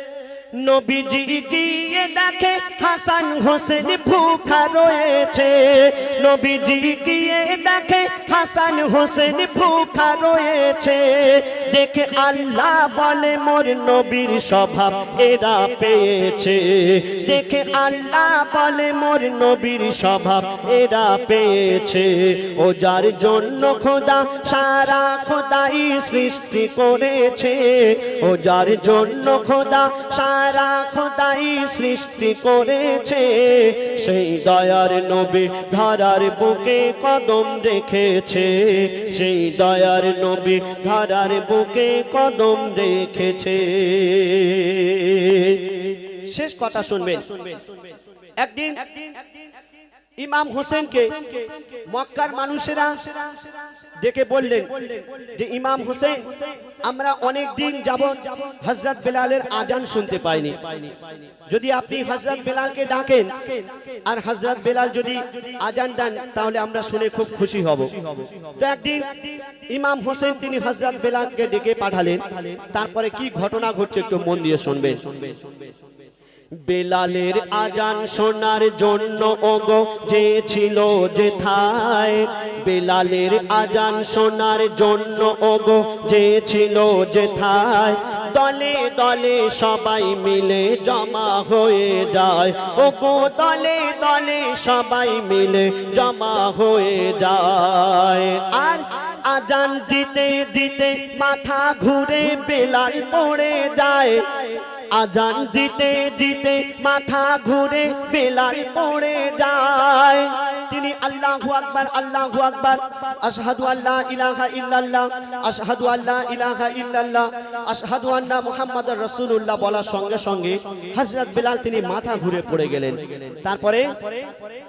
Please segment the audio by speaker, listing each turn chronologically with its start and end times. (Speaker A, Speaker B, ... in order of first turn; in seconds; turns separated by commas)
Speaker A: 0.6-47.4, Speaker A: 48.4-49.1, Speaker A: 50.2-52.9, Speaker A: 54.0-61.0, Speaker A: 61.5-69.2, Speaker A: 69.7-75.4, Speaker A: 76.7-104.4, Speaker A: 104.9-124.5